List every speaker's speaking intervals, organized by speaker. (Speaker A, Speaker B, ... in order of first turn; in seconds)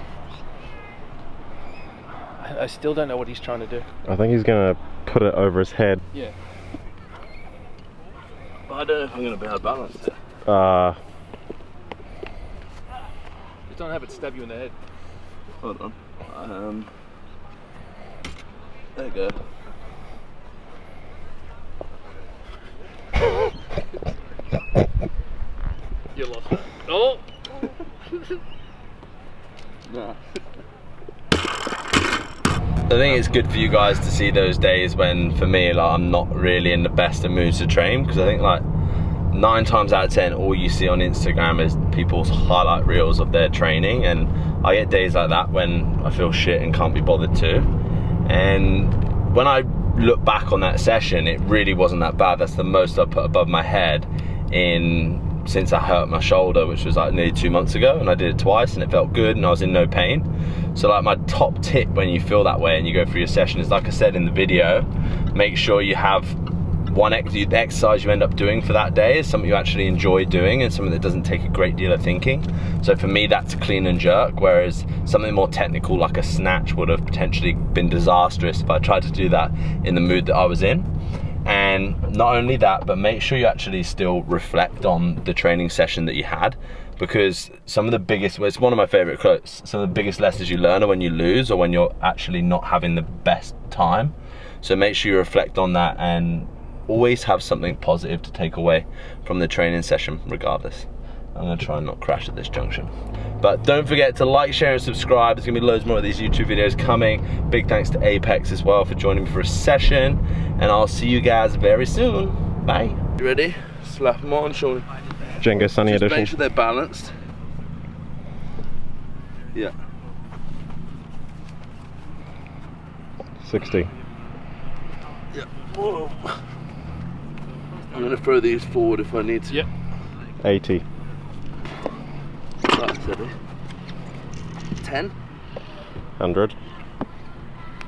Speaker A: 2.4-3.9, 13.7-14.7, 26.1-27.2
Speaker B: 4.0-6.0, 10.4-11.0, 115.4-116.3, 123.4-123.9, 130.4-130.8, 136.2-136.6
Speaker C: 8.7-10.2, 15.6-16.9, 18.9-19.4, 29.9-30.2, 32.9-38.6, 39.3-47.7, 48.2-66.4, 66.9-80.9, 81.4-102.9, 103.4-114.9, 115.8-117.1, 125.4-126.2, 127.9-129.6, 132.7-133.3, 134.8-135.1